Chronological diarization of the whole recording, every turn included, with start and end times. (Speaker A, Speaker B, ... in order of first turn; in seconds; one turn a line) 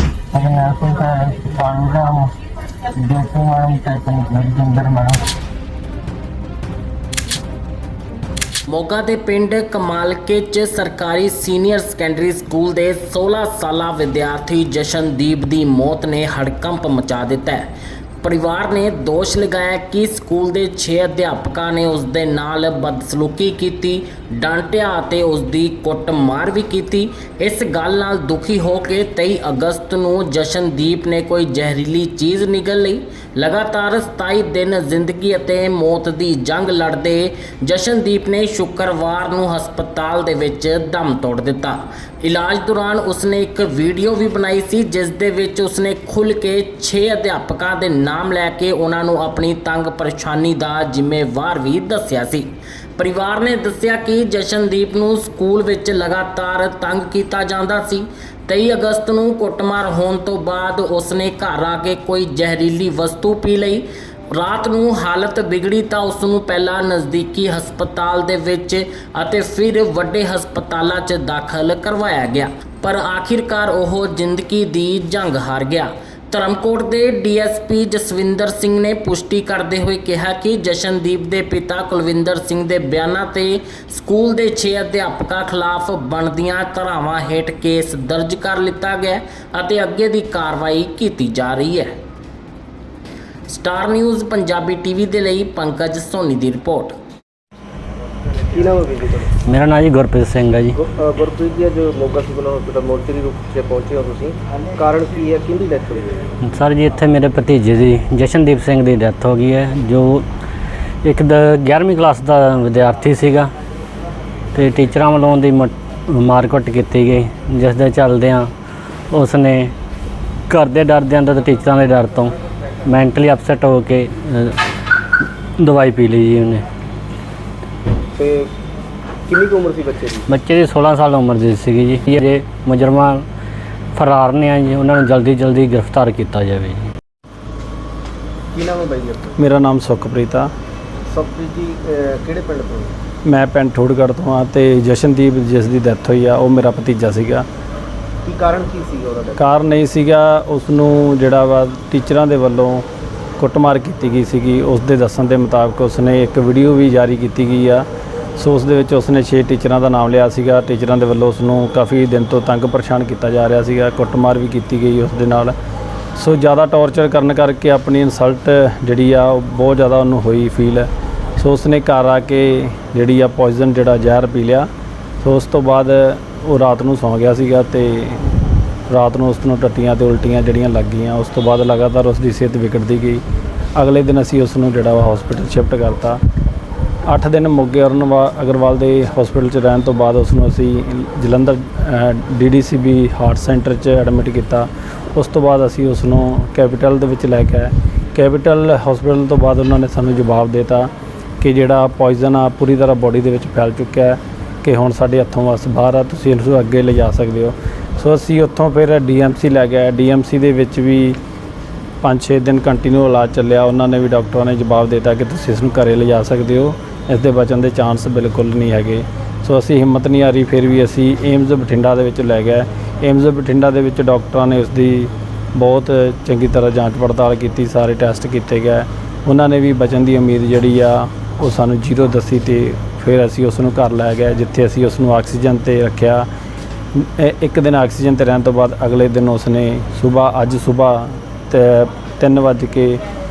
Speaker A: 0.3-2.3
Speaker A: 2.9-5.3
Speaker B: 8.7-17.7
Speaker B: 18.2-91.9
Speaker B: 93.5-97.0
Speaker C: 98.5-99.2
Speaker D: 99.5-100.8
Speaker C: 101.0-106.2
Speaker D: 106.4-110.2
Speaker D: 111.0-113.5
Speaker D: 114.5-118.5
Speaker D: 119.1-119.7
Speaker D: 120.5-122.3
Speaker D: 122.8-124.6
Speaker D: 125.6-126.7
Speaker C: 128.2-128.5
Speaker C: 129.3-130.2
Speaker D: 130.3-133.2
Speaker D: 133.9-136.8
Speaker C: 138.5-139.3
Speaker E: 139.4-140.5
Speaker C: 141.1-142.9
Speaker E: 143.2-147.4
Speaker C: 148.2-149.3
Speaker E: 149.4-152.9
Speaker E: 153.4-165.5
Speaker E: 166.2-174.7
Speaker E: 175.2-178.2
Speaker E: 178.9-183.2
Speaker E: 183.7-186.2
Speaker E: 187.1-211.2
Speaker E: 212.0-236.3
Speaker E: 236.9-243.0